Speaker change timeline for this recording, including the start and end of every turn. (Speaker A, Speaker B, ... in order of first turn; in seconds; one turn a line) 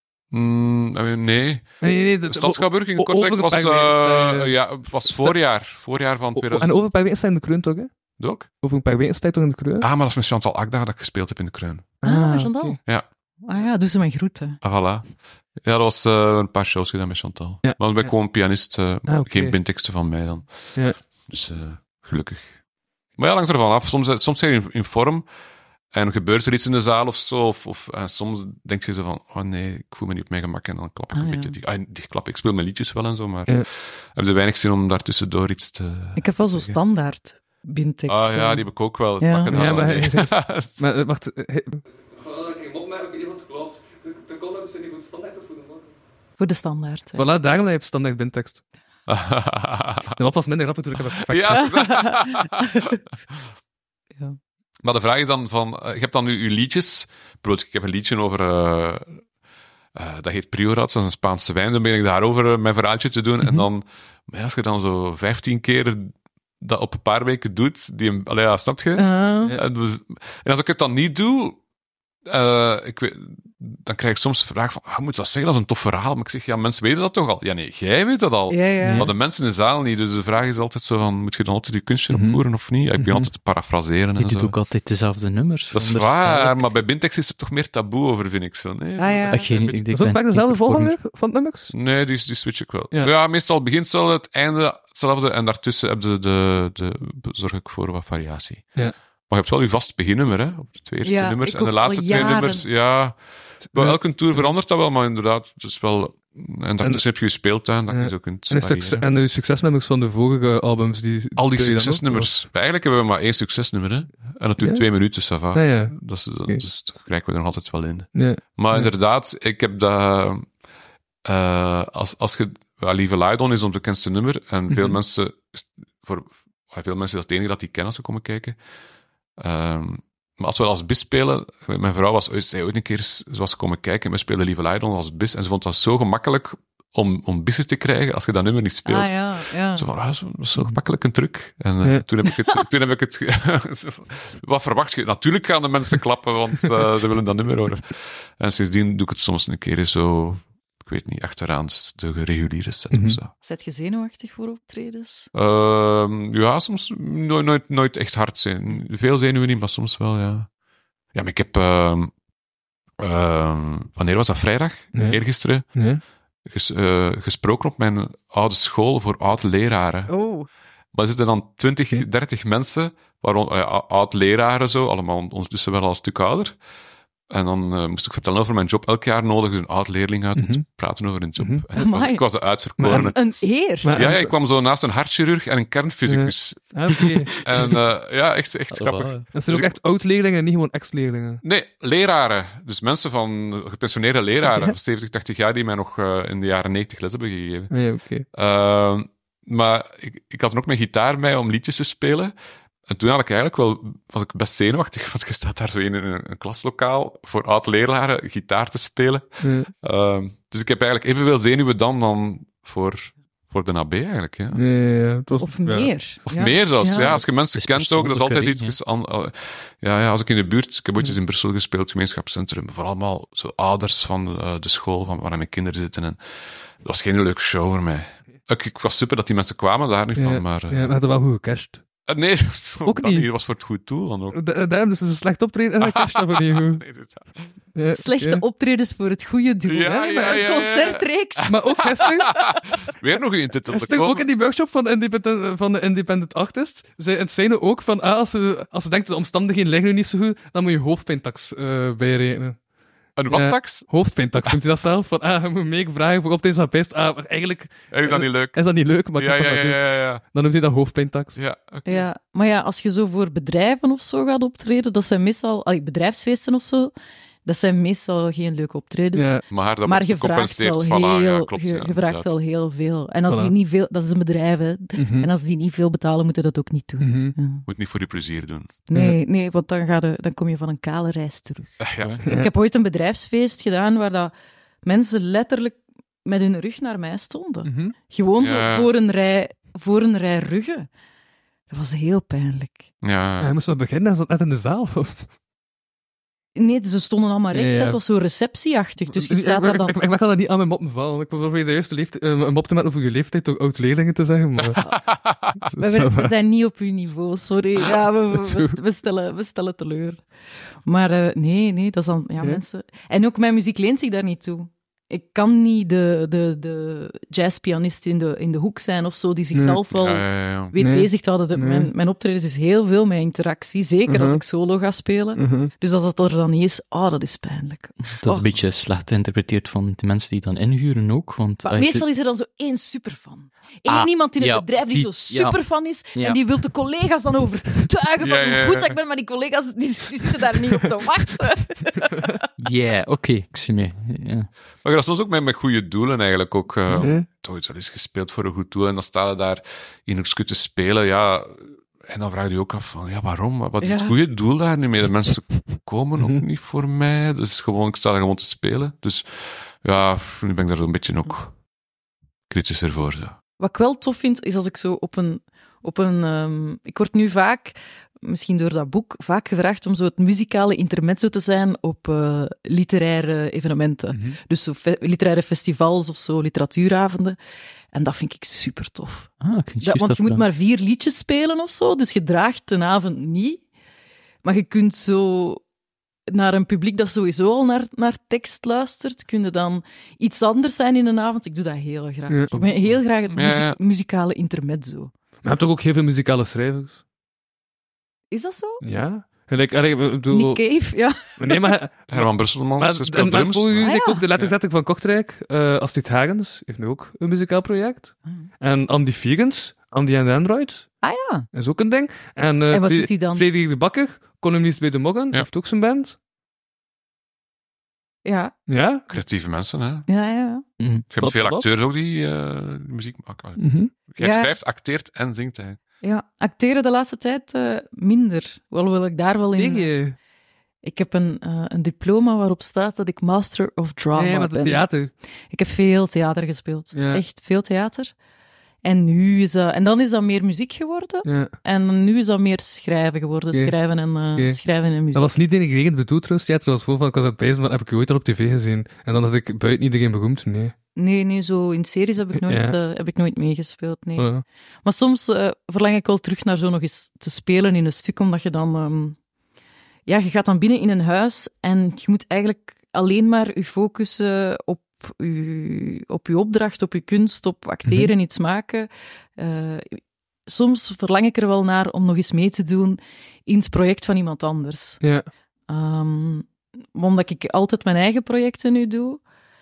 Speaker A: 0.3-6.7
Speaker B: 1.8-5.4
Speaker B: 6.3-7.9
Speaker A: 8.2-8.5
Speaker B: 8.6-9.9
Speaker A: 9.8-12.0
Speaker B: 12.0-12.8
Speaker C: 12.0-12.8
Speaker C: 13.4-14.6
Speaker A: 14.6-22.5
Speaker B: 17.6-18.1
Speaker B: 19.0-19.6
Speaker A: 23.2-25.2
Speaker A: 25.9-36.8
Speaker C: 31.1-31.6
Speaker C: 36.1-38.7
Speaker A: 38.1-40.8
Speaker C: 39.2-39.5
Speaker B: 39.5-45.9
Speaker C: 46.4-47.2
Speaker B: 47.1-48.6
Speaker A: 49.1-50.2
Speaker B: 50.1-51.9
Speaker A: 51.3-52.7
Speaker C: 51.6-52.9
Speaker A: 54.8-59.2
Speaker A: 59.9-71.6
Speaker B: 63.4-63.6
Speaker C: 69.0-69.5
Speaker A: 72.3-84.5
Speaker C: 78.5-79.1
Speaker B: 78.8-79.1
Speaker B: 82.1-82.4
Speaker B: 83.0-83.3
Speaker D: 84.2-86.6
Speaker A: 85.7-89.8
Speaker C: 89.0-89.5
Speaker D: 89.3-91.0
Speaker B: 89.9-91.7
Speaker A: 91.7-109.0
Speaker C: 101.0-102.7
Speaker B: 103.6-104.5
Speaker B: 107.9-112.4
Speaker A: 111.3-120.5
Speaker B: 114.6-114.8
Speaker B: 115.5-116.0
Speaker B: 118.1-118.9
Speaker A: 121.2-128.6
Speaker B: 124.7-125.0
Speaker A: 129.4-153.3
Speaker C: 138.8-139.9
Speaker B: 152.9-153.2
Speaker C: 153.4-155.3
Speaker A: 155.3-160.5
Speaker A: 161.1-162.1
Speaker A: 163.0-165.7
Speaker B: 164.9-165.2
Speaker B: 165.7-166.0
Speaker A: 166.4-170.1
Speaker C: 170.1-170.5
Speaker A: 170.9-176.6
Speaker A: 177.3-183.3
Speaker B: 180.3-180.6
Speaker B: 181.4-181.6
Speaker C: 181.8-182.2
Speaker B: 182.8-183.1
Speaker C: 182.8-184.0
Speaker B: 183.8-184.3
Speaker A: 183.9-189.8
Speaker B: 186.1-187.8
Speaker D: 188.7-189.3
Speaker B: 189.3-191.4
Speaker A: 191.4-202.3
Speaker B: 194.4-194.7
Speaker B: 197.7-198.2
Speaker A: 202.9-214.6
Speaker B: 209.4-209.7
Speaker B: 214.5-215.9
Speaker C: 215.4-217.2
Speaker A: 216.2-226.2
Speaker D: 217.0-218.8
Speaker A: 226.8-230.9
Speaker B: 230.2-231.8
Speaker A: 232.1-234.4
Speaker B: 232.8-233.3
Speaker B: 234.3-236.8
Speaker A: 235.8-237.4
Speaker B: 237.7-238.4
Speaker C: 237.9-241.6
Speaker A: 239.7-244.2
Speaker B: 239.8-240.4
Speaker B: 241.4-242.5
Speaker B: 243.7-252.6
Speaker A: 253.2-254.5
Speaker B: 253.2-261.4
Speaker A: 257.9-260.2
Speaker A: 261.3-262.0
Speaker C: 261.8-266.9
Speaker C: 267.4-277.6
Speaker B: 269.1-269.4
Speaker A: 269.5-272.3
Speaker B: 273.3-273.5
Speaker B: 275.0-275.3
Speaker B: 277.0-277.4
Speaker A: 277.7-278.7
Speaker C: 278.9-284.3
Speaker A: 281.8-282.2
Speaker B: 282.2-282.5
Speaker C: 284.8-290.9
Speaker B: 287.6-287.9
Speaker A: 288.4-288.9
Speaker C: 291.7-292.9
Speaker A: 293.0-293.5
Speaker B: 293.4-295.3
Speaker C: 296.5-300.0
Speaker B: 297.5-298.0
Speaker B: 299.1-304.8
Speaker A: 304.8-305.5
Speaker B: 305.7-306.3
Speaker C: 305.8-310.2
Speaker B: 308.3-308.8
Speaker C: 310.9-328.4
Speaker B: 319.5-319.8
Speaker A: 319.9-320.8
Speaker B: 320.8-321.9
Speaker B: 324.1-324.4
Speaker B: 325.4-325.7
Speaker D: 328.2-332.0
Speaker C: 331.6-342.5
Speaker D: 333.9-335.6
Speaker D: 336.1-336.4
Speaker A: 338.2-338.9
Speaker D: 342.6-344.5
Speaker A: 344.8-361.6
Speaker B: 347.0-347.2
Speaker C: 353.8-354.1
Speaker A: 362.5-363.4
Speaker C: 363.6-377.4
Speaker B: 374.1-374.4
Speaker C: 377.9-379.3
Speaker D: 379.4-380.4
Speaker C: 379.8-383.6
Speaker C: 384.4-385.6
Speaker C: 386.3-395.1
Speaker B: 392.3-392.9
Speaker A: 393.3-393.8
Speaker B: 395.4-397.0
Speaker C: 398.3-398.8
Speaker B: 398.8-400.8
Speaker C: 400.3-401.8
Speaker B: 401.3-410.9
Speaker A: 402.1-404.5
Speaker C: 403.8-404.2
Speaker C: 411.0-411.5
Speaker B: 411.5-416.2
Speaker C: 412.7-413.4
Speaker C: 418.2-418.5
Speaker B: 418.7-419.1
Speaker A: 419.1-420.1
Speaker C: 420.1-420.6
Speaker D: 420.8-421.0
Speaker A: 421.1-425.8
Speaker B: 421.2-421.7
Speaker B: 423.6-423.9
Speaker C: 424.2-424.5
Speaker C: 426.0-430.0
Speaker B: 429.6-430.2
Speaker C: 430.8-434.9
Speaker B: 434.1-435.1
Speaker C: 435.5-438.1
Speaker B: 436.9-437.2
Speaker C: 438.8-445.4
Speaker B: 441.2-441.5
Speaker B: 443.5-443.8
Speaker B: 444.3-444.6
Speaker B: 445.1-450.7
Speaker C: 450.9-454.3
Speaker B: 452.4-452.8
Speaker B: 454.2-454.4
Speaker C: 454.8-459.2
Speaker C: 460.1-475.0
Speaker B: 467.9-468.1
Speaker B: 475.0-475.3
Speaker C: 475.7-479.2